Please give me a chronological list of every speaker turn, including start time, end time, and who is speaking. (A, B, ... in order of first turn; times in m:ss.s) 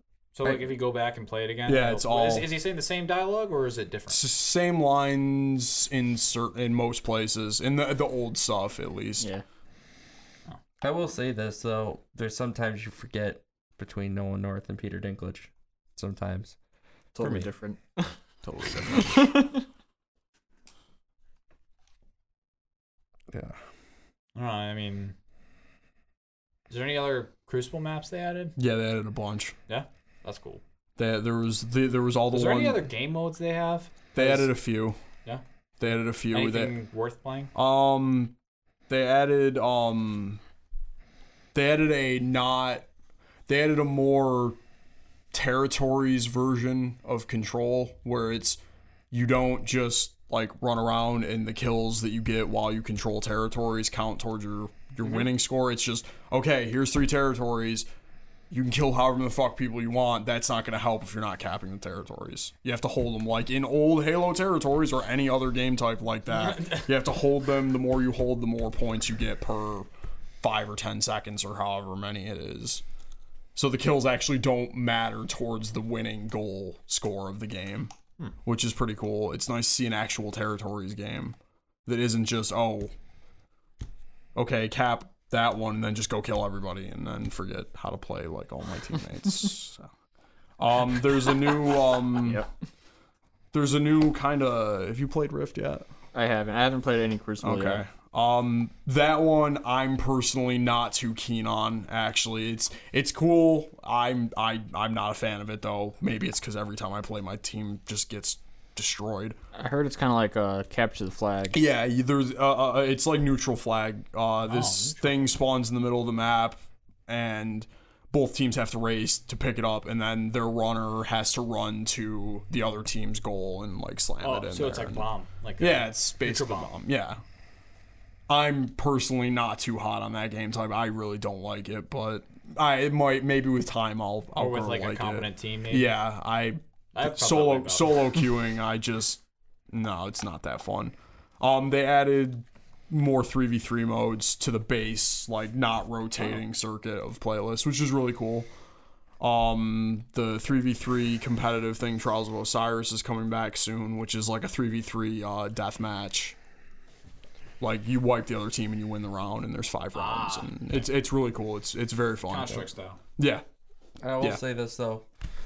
0:00.3-0:04.2 A
0:01.6-0:02.6 B
0:04.1-0:09.3 B
0:10.8-0:16.6 C
0:17.1-0:19.5 D
0:17.2-0:17.5 C
0:24.3-0:25.1 A
0:26.7-0:28.5 A
0:28.6-0:29.5 B
0:29.7-0:30.6 A
0:31.0-0:32.8 B
0:32.3-0:34.6 A
0:34.1-0:35.0 B
0:35.8-0:36.7 B
0:36.3-0:37.5 A
0:37.5-0:38.3 B
0:38.9-0:40.4 B
0:41.5-0:42.9 B
0:43.5-0:44.6 B
0:45.3-0:48.6 B
0:49.1-0:57.9 B
0:58.5-1:09.9 B
1:06.3-1:06.9 A
1:10.4-1:12.8 B
1:13.5-1:17.9 B
1:18.4-1:21.3 B
1:21.8-1:22.9 B
1:24.3-1:29.9 B
1:30.6-1:32.4 B
1:33.5-1:35.9 B
1:36.1-1:37.8 D
1:37.4-1:49.4 B
1:49.5-1:51.6 D
1:51.5-2:05.0 B
1:54.5-1:55.2 A
2:04.2-2:06.7 A
2:05.6-2:07.2 B
2:08.3-2:28.5 B
2:14.4-2:15.9 A
2:16.9-2:18.1 A
2:29.2-2:36.4 B
2:37.6-2:42.6 B
2:39.9-2:40.9 A
2:42.3-2:43.0 A
2:43.2-2:43.4 B
2:44.0-2:45.0 C